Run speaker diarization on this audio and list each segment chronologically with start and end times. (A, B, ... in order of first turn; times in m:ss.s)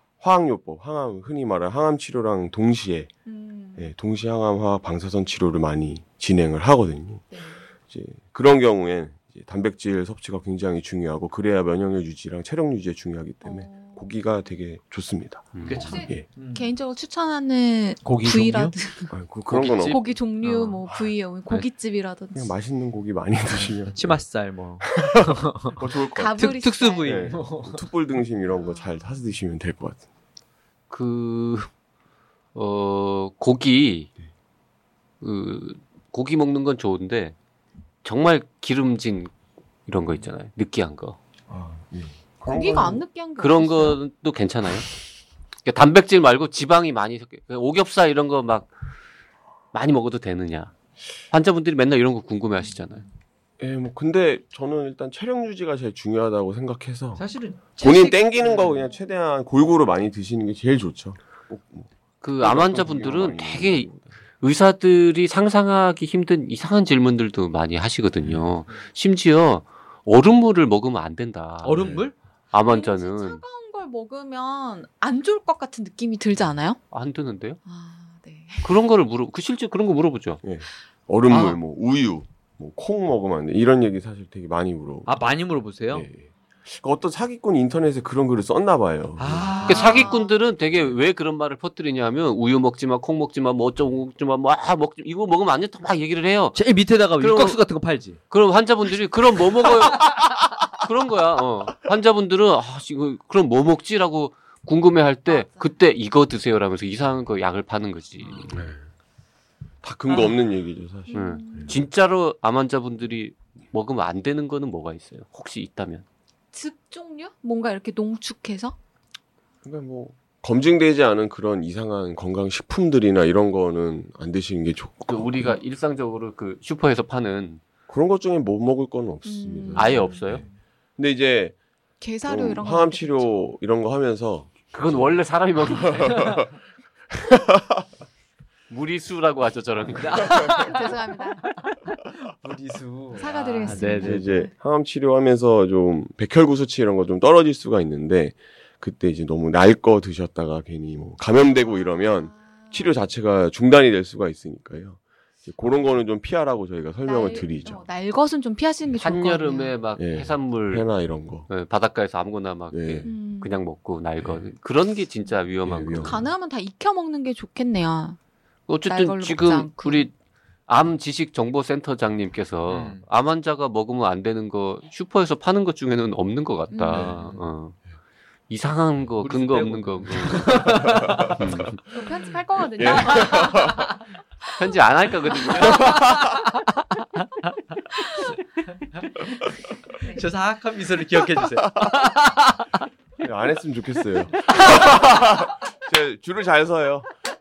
0:00.2-0:03.1 A
0:03.2-0:03.9 B
0:03.8-0:07.2 A
0:07.3-0:07.6 B
0:07.8-0:16.2 A
0:13.4-0:14.1 B
0:15.5-0:15.9 C
0:15.6-0:16.7 D
0:15.8-0:19.1 B
0:18.0-0:18.8 D
0:19.1-0:20.0 A
0:19.5-0:20.6 C
0:19.9-0:22.5 B
0:20.8-0:21.1 A
0:22.3-0:24.2 A
0:23.9-0:25.8 D
0:25.1-0:30.0 A
0:26.1-0:27.3 B
0:26.3-0:27.9 D
0:28.5-0:29.0 B
0:30.9-0:31.7 C
0:32.5-0:34.1 C
0:35.2-0:37.4 C
0:38.0-0:39.3 C
0:39.9-0:41.2 C
0:41.5-0:43.0 A
0:42.5-0:44.0 B
0:43.4-0:44.9 C
0:45.6-0:48.7 C
0:49.7-0:50.7 C
0:51.3-0:53.0 C
0:53.6-0:57.2 A
0:57.1-0:58.8 D
0:57.8-1:01.9 A
1:02.2-1:11.8 C
1:02.4-1:04.1 A
1:11.6-1:12.1 D
1:11.7-1:12.1 A
1:12.5-1:13.4 C
1:12.5-1:16.8 B
1:16.9-1:17.6 C
1:17.6-1:18.8 B
1:18.6-1:20.4 C
1:20.4-1:25.2 A
1:21.3-1:21.6 C
1:25.0-1:26.1 D
1:25.7-1:30.0 A
1:29.2-1:30.1 D
1:29.4-1:30.4 B
1:29.6-1:36.6 C
1:36.5-1:38.2 D
1:37.2-1:37.6 C
1:38.3-1:48.7 C
1:45.3-1:45.7 B
1:48.5-1:48.8 A
1:49.8-1:51.7 A
1:50.1-1:50.3 D
1:51.1-1:51.8 B
1:51.1-1:56.0 C
1:56.5-1:58.8 B
1:59.6-2:05.6 A
2:05.0-2:07.6 C
2:07.9-2:10.4 A
2:09.2-2:10.2 B
2:09.7-2:10.4 C
2:11.0-2:11.6 A
2:12.0-2:13.4 B
2:12.2-2:16.5 A
2:14.7-2:16.3 C
2:16.1-2:16.4 D
2:17.2-2:17.8 A
2:18.7-2:20.4 C
2:20.0-2:24.2 D
2:20.1-2:20.6 A
2:20.5-2:21.4 B
2:23.1-2:24.5 B
2:23.6-2:37.8 A
2:31.4-2:33.0 B
2:37.0-2:39.8 B
2:39.0-2:40.9 C
2:40.0-2:41.5 A
2:41.5-2:46.2 C
2:42.7-2:43.1 A
2:43.0-2:43.6 B
2:44.2-2:44.5 A
2:45.6-2:46.2 A
2:46.0-2:48.2 B
2:48.7-2:50.1 C
2:48.8-2:50.1 B
2:50.7-2:57.8 C
2:52.7-2:53.0 D
2:56.7-2:57.2 B
2:56.9-2:57.3 A
2:57.0-2:57.4 D
2:58.5-3:01.8 C
2:59.2-3:01.4 D
3:00.4-3:01.4 A
3:01.9-3:04.1 B
3:02.8-3:03.9 A
3:04.6-3:05.8 C
3:05.4-3:06.2 B
3:05.7-3:06.3 D
3:07.9-3:08.3 B
3:08.9-3:12.7 D
3:10.0-3:10.2 B
3:13.2-3:17.1 A